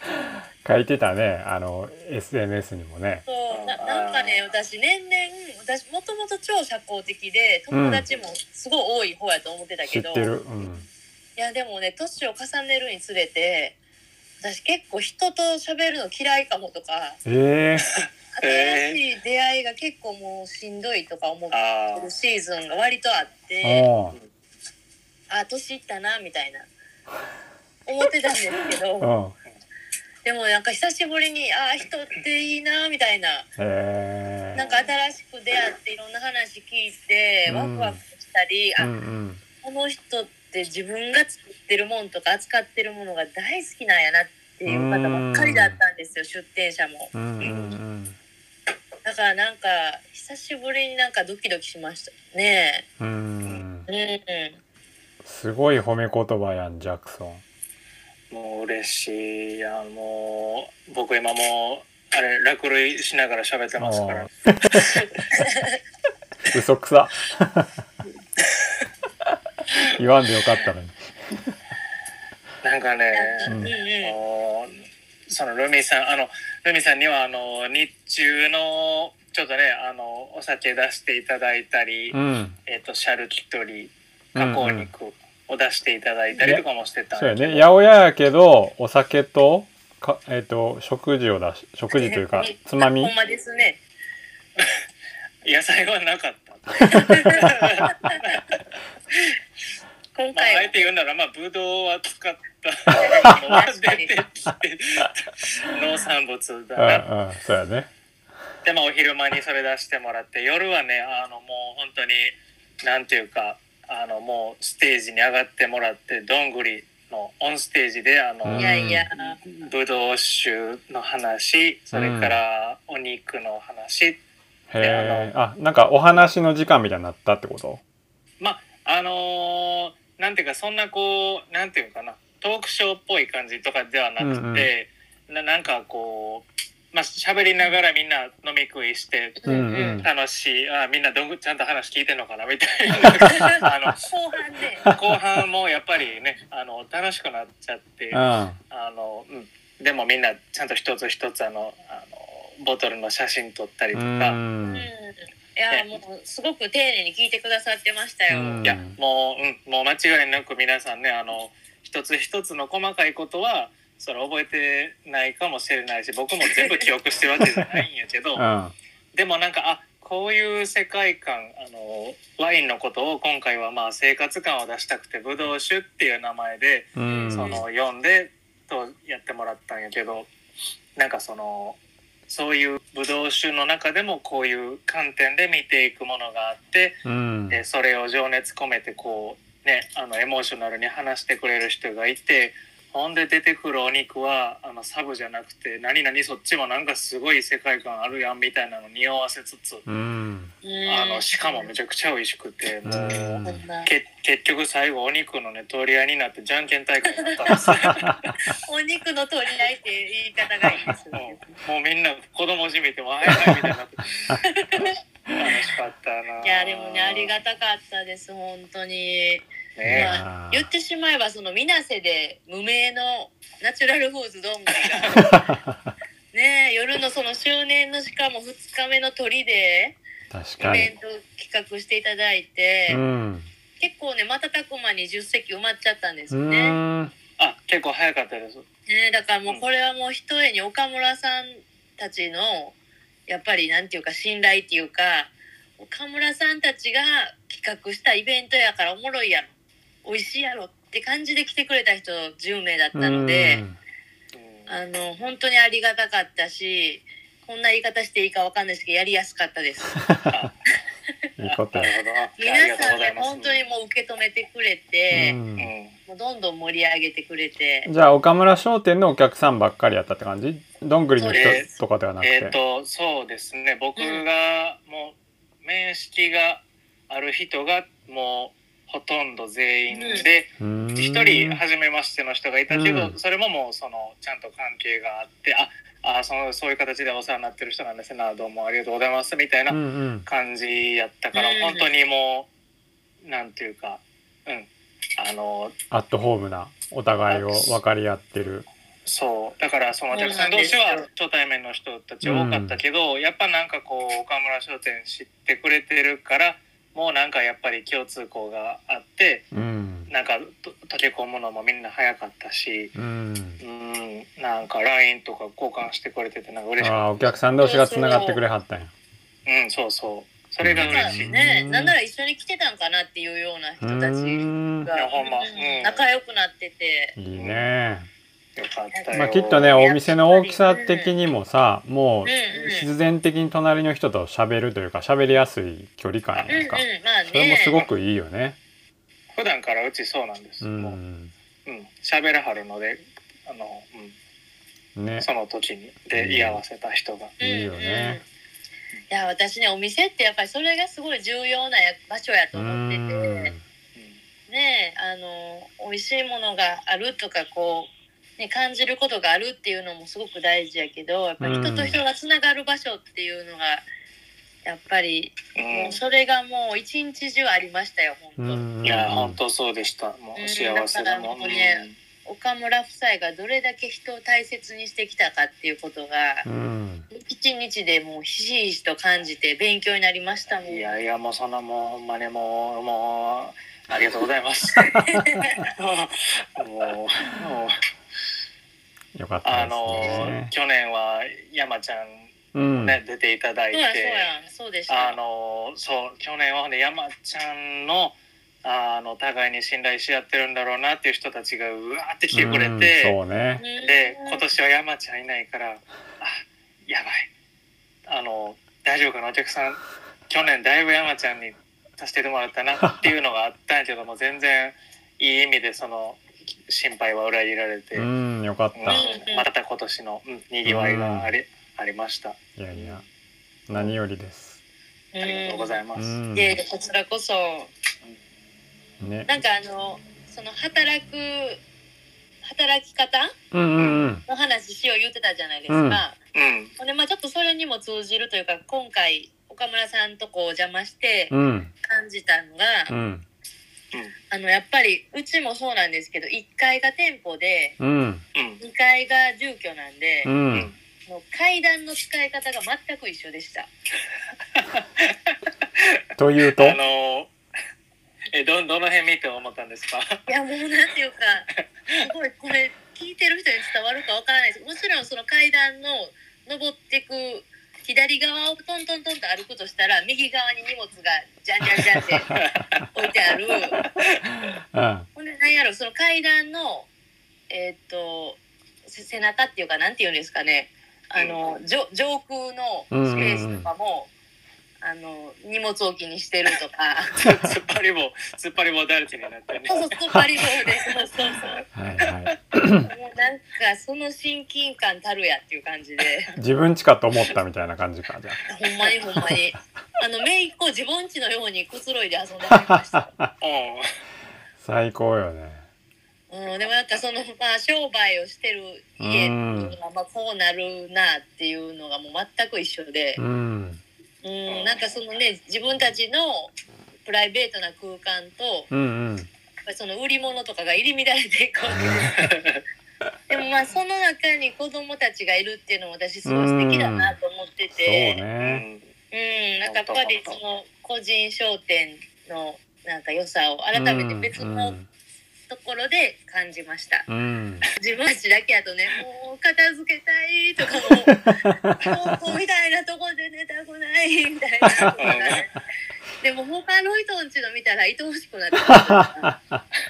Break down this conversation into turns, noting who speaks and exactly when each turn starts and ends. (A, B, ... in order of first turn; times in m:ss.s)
0:00.2-0:03.2 A
0:03.2-0:10.3 B
0:03.5-0:04.4 C
0:07.7-0:08.0 A
0:09.9-0:10.9 A
0:11.4-0:13.8 B
0:14.4-0:17.2 B
0:17.2-0:17.9 A
0:17.8-0:19.0 C
0:18.4-0:23.9 B
0:21.5-0:22.1 C
0:23.6-0:24.2 A
0:25.3-0:26.7 B
0:27.9-0:29.1 B
0:29.0-0:29.4 A
0:30.2-0:33.5 B
0:33.6-0:34.6 A
0:34.5-0:38.9 B
0:34.6-0:34.9 C
0:37.5-0:38.0 A
0:38.8-0:39.4 A
0:39.6-0:47.1 B
0:44.7-0:45.8 A
0:47.1-0:48.2 A
0:47.4-0:47.8 C
0:49.0-0:52.8 B
0:53.0-0:53.9 A
0:53.9-0:54.6 B
0:55.2-0:57.4 A
0:58.3-1:05.0 C
1:03.8-1:05.0 A
1:05.4-1:05.7 B
1:06.5-1:07.7 A
1:09.9-1:11.6 A
1:12.6-1:14.8 C
1:13.1-1:14.2 B
1:13.5-1:13.7 A
1:15.3-1:27.6 C
1:22.1-1:22.6 A
1:24.4-1:24.9 A
1:26.4-1:33.1 A
1:32.0-1:33.8 B
1:35.4-1:38.6 C
1:36.8-1:38.2 B
1:37.1-1:37.6 A
1:40.2-1:40.9 B
1:40.3-1:47.1 C
1:42.9-1:44.1 B
1:46.8-1:47.9 A
1:48.6-2:04.2 C
1:58.4-1:59.1 A
1:58.6-1:59.6 B
2:01.9-2:02.4 A
2:04.7-2:07.8 A
2:04.8-2:05.3 C
2:08.4-2:24.1 C
2:14.2-2:14.7 A
2:19.4-2:20.0 B
2:19.5-2:20.1 A
2:23.0-2:23.7 A
2:23.2-2:24.8 B
2:24.8-2:25.1 A
2:24.8-2:34.4 C
2:28.1-2:28.6 A
2:33.9-2:34.9 A
2:34.7-2:38.7 B
2:38.3-2:39.0 A
2:38.6-2:48.4 C
2:46.6-2:46.8 B
2:47.4-2:47.8 A
2:48.4-2:48.7 A
2:49.1-3:00.3 C
2:57.0-2:57.6 A
2:57.0-2:57.6 B
3:01.0-3:19.9 C
3:07.0-3:07.6 A
3:19.9-3:20.5 A
3:20.6-3:21.7 B
3:20.9-3:28.2 C
3:22.8-3:23.6 A
3:23.4-3:23.9 B
3:27.2-3:27.8 B
3:27.5-3:28.2 A
3:28.5-3:31.6 B
3:31.1-3:34.4 C
3:33.4-3:33.7 A
3:34.4-3:35.0 B
3:35.3-3:35.5 A
3:35.4-3:37.4 C
3:36.4-3:45.4 B
3:39.8-3:40.2 C
3:39.8-3:40.7 A
3:45.2-3:45.9 A
3:46.3-3:50.0 B
3:50.3-3:50.9 A
3:50.6-3:53.0 B
3:52.9-3:53.5 A
3:53.8-3:56.8 B
3:56.3-3:57.1 A
3:57.4-3:58.6 C
3:58.9-4:02.8 B
4:03.3-4:09.5 B
4:10.0-4:13.6 B
4:12.9-4:13.8 A
4:14.3-4:14.7 C
4:14.7-4:20.0 B
4:20.0-4:20.5 A
4:20.3-4:20.5 C
4:21.4-4:21.9 A
4:21.4-4:23.6 C
4:22.4-4:25.4 B
4:25.1-4:25.7 A
4:25.6-4:26.0 C
4:26.1-4:27.9 B
4:27.9-4:32.6 A
4:31.2-4:31.7 B
4:31.3-4:31.7 C
4:32.2-4:52.5 C
4:34.0-4:34.2 B
4:39.9-4:40.2 B
4:40.6-4:41.6 A
4:42.7-4:43.2 A
4:49.7-4:50.3 A
4:51.3-4:51.9 B
4:53.2-4:55.8 C
4:55.9-4:58.7 A
4:57.3-4:57.8 C
4:59.0-5:09.5 C
5:00.1-5:01.1 B
5:02.2-5:02.8 A
5:09.5-5:10.1 A
5:10.1-5:12.9 C
5:13.0-5:13.6 A
5:13.6-5:17.1 C
5:16.8-5:18.9 A
5:17.6-5:18.4 B
5:19.5-5:21.3 C
5:20.6-5:22.0 A
5:20.8-5:27.2 B
5:23.8-5:24.9 A
5:24.9-5:26.0 C
5:27.2-5:28.1 A
5:27.4-5:27.7 C
5:28.6-5:29.8 C
5:28.9-5:31.2 B
5:29.1-5:38.6 A
5:32.2-5:32.9 B
5:36.3-5:36.7 C
5:36.5-5:37.8 B
5:39.4-5:41.0 C
5:40.6-5:41.3 A
5:41.7-5:44.2 C
5:45.0-5:45.3 A
5:45.2-5:47.4 C
5:46.2-5:46.6 A
5:47.4-5:48.2 A
5:47.4-5:48.2 B
5:49.1-5:53.5 B
5:52.5-5:53.6 A
5:54.0-5:54.2 C
5:54.5-6:03.9 B
6:01.4-6:02.0 A
6:04.6-6:08.6 B
6:05.5-6:06.0 C
6:08.4-6:09.4 A
6:08.8-6:12.0 C
6:10.4-6:16.5 B
6:16.4-6:17.0 A
6:17.1-6:20.9 B
6:20.6-6:25.0 C
6:24.9-6:25.6 B
6:25.6-6:27.8 C
6:29.2-6:30.5 A
6:29.4-6:34.3 C
6:32.5-6:33.0 A
6:33.7-6:35.2 B
6:34.9-6:43.2 C
6:42.3-6:43.6 A
6:43.6-6:44.4 B
6:43.8-6:47.3 C
6:48.1-6:58.1 C
6:58.0-6:59.1 A
6:58.8-7:03.0 C
6:58.9-6:59.4 B
7:00.6-7:01.3 A
7:02.6-7:03.0 A
7:03.7-7:04.6 A
7:05.1-7:05.8 B
7:05.2-7:06.2 C
7:06.0-7:06.6 A
7:06.3-7:07.7 B
7:09.0-7:09.3 A
7:09.3-7:11.6 B
7:12.4-7:13.3 B
7:13.5-7:14.2 A
7:13.8-7:14.0 C
7:14.2-7:16.2 B
7:15.7-7:16.0 A
7:16.3-7:16.7 C
7:16.8-7:22.9 B
7:21.3-7:21.7 A
7:22.9-7:23.2 A
7:24.3-7:27.8 B
7:27.8-7:28.2 A
7:28.4-7:28.6 C
7:28.6-7:30.3 B
7:30.2-7:30.7 A
7:31.0-7:33.7 B
7:34.6-7:36.0 C
7:36.2-7:36.8 A
7:36.5-7:37.3 C
7:38.3-7:40.2 C
7:40.3-7:52.3 B
7:52.4-7:52.8 C
7:52.9-7:53.8 B
7:54.2-7:55.1 A
7:55.2-7:56.9 B
7:57.5-8:04.1 B
8:02.9-8:03.7 A
8:04.8-8:07.2 B
8:07.2-8:09.9 C
8:07.2-8:07.5 A
8:09.7-8:11.6 B
8:11.7-8:12.9 A
8:12.0-8:12.3 C
8:12.8-8:16.3 B
8:16.4-8:18.4 A
8:18.5-8:23.1 B
8:22.7-8:23.3 A
8:23.4-8:23.9 C
8:24.6-8:25.6 A
8:26.3-8:33.2 B
8:29.0-8:29.8 A
8:33.2-8:33.8 A
8:34.2-8:36.5 B
8:34.5-8:34.8 C
8:37.0-8:38.7 B
8:38.7-8:39.3 A
8:39.7-8:42.3 B
8:41.7-8:42.1 A
8:42.2-8:42.6 C
8:43.3-8:48.2 B
8:46.2-8:47.2 A
8:47.8-8:48.6 A
8:48.4-8:48.8 C
8:49.1-8:54.8 B
8:49.6-8:50.4 C
8:53.7-8:54.9 A
8:55.5-8:57.1 B
8:57.1-8:57.7 A
8:57.8-9:05.5 B
9:01.2-9:01.9 A
9:05.0-9:05.4 C
9:06.2-9:09.3 B
9:08.6-9:09.6 A